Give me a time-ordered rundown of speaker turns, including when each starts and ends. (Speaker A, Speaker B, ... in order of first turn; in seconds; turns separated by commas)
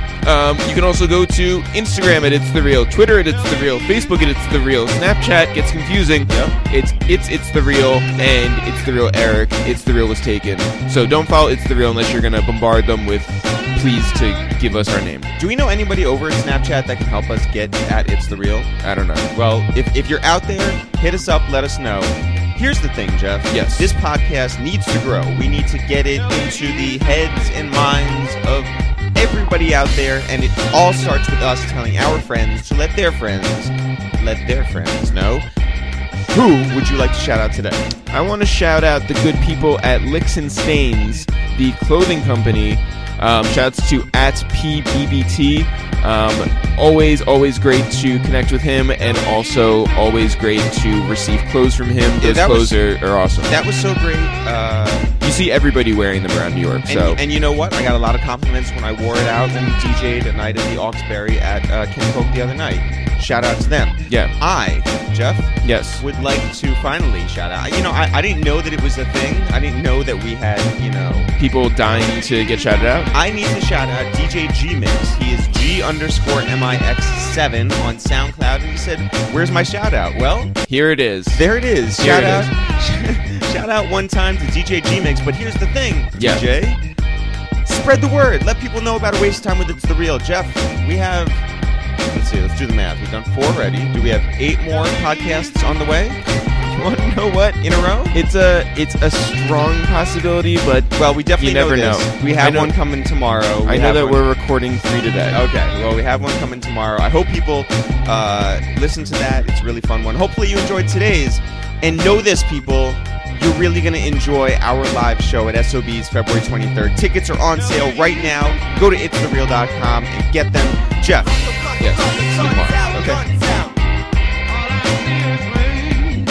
Speaker A: 0.2-15.3, Speaker B: 6.3-6.6, Speaker B: 15.4-35.5, Speaker A: 23.5-23.9, Speaker B: 36.3-37.9, Speaker A: 38.1-53.6, Speaker B: 52.2-52.8, Speaker B: 53.4-55.1, Speaker A: 55.2-57.2, Speaker B: 56.9-71.3, Speaker A: 64.1-64.3, Speaker A: 65.6-66.0, Speaker A: 71.4-73.1, Speaker B: 73.1-80.6, Speaker A: 80.7-81.4, Speaker B: 81.3-86.8, Speaker A: 82.0-82.5, Speaker A: 86.2-86.4, Speaker B: 87.7-91.5, Speaker B: 92.0-98.2, Speaker A: 98.1-102.8, Speaker B: 100.9-104.2, Speaker A: 103.6-105.4, Speaker B: 105.3-121.8, Speaker A: 121.8-123.2, Speaker B: 122.3-123.4